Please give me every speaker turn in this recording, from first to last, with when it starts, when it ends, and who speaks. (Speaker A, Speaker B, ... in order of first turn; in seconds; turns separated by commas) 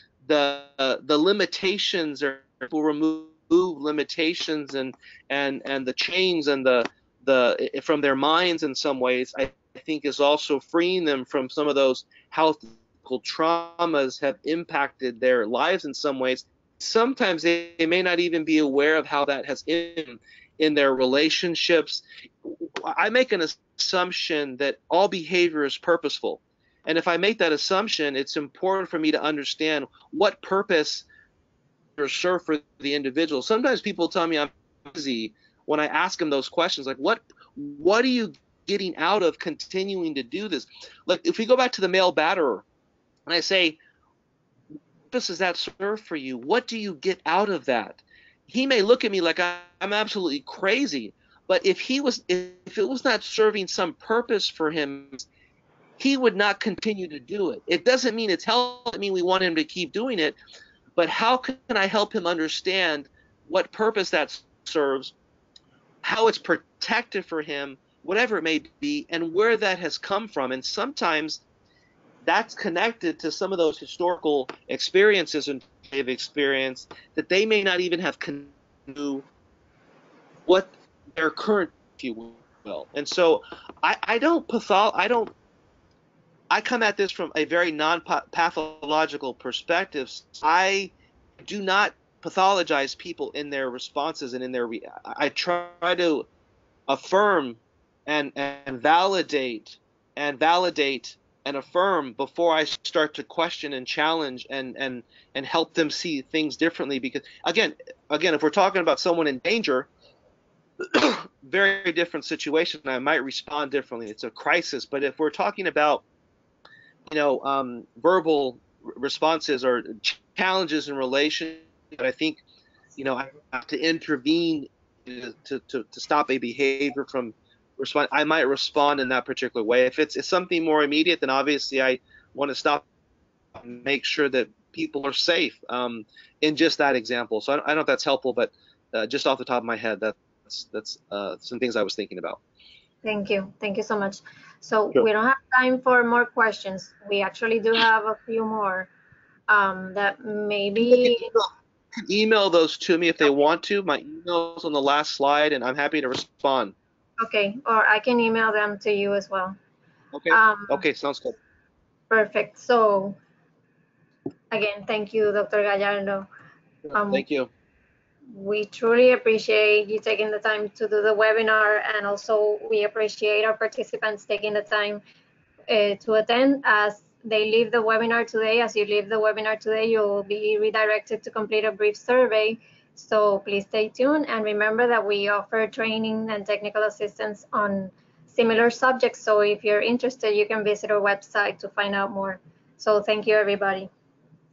Speaker A: 0.2-31.1, Speaker A: 32.0-42.6, Speaker A: 43.3-43.8, Speaker A: 45.1-55.2, Speaker A: 56.0-60.4, Speaker A: 61.0-65.2, Speaker A: 66.0-71.4, Speaker A: 72.2-79.2, Speaker A: 80.5-85.3, Speaker A: 86.5-96.3, Speaker A: 96.9-109.9, Speaker A: 110.8-116.0, Speaker A: 117.1-122.4, Speaker A: 123.0-132.8, Speaker A: 133.6-142.4, Speaker B: 143.0-148.9, Speaker B: 149.5-151.3, Speaker A: 150.9-156.7, Speaker B: 157.2-159.6, Speaker A: 160.1-161.4, Speaker B: 160.3-160.8, Speaker B: 162.1-163.2, Speaker B: 164.5-166.3, Speaker B: 166.9-167.2, Speaker A: 167.1-167.5, Speaker B: 168.3-175.0, Speaker B: 175.7-193.9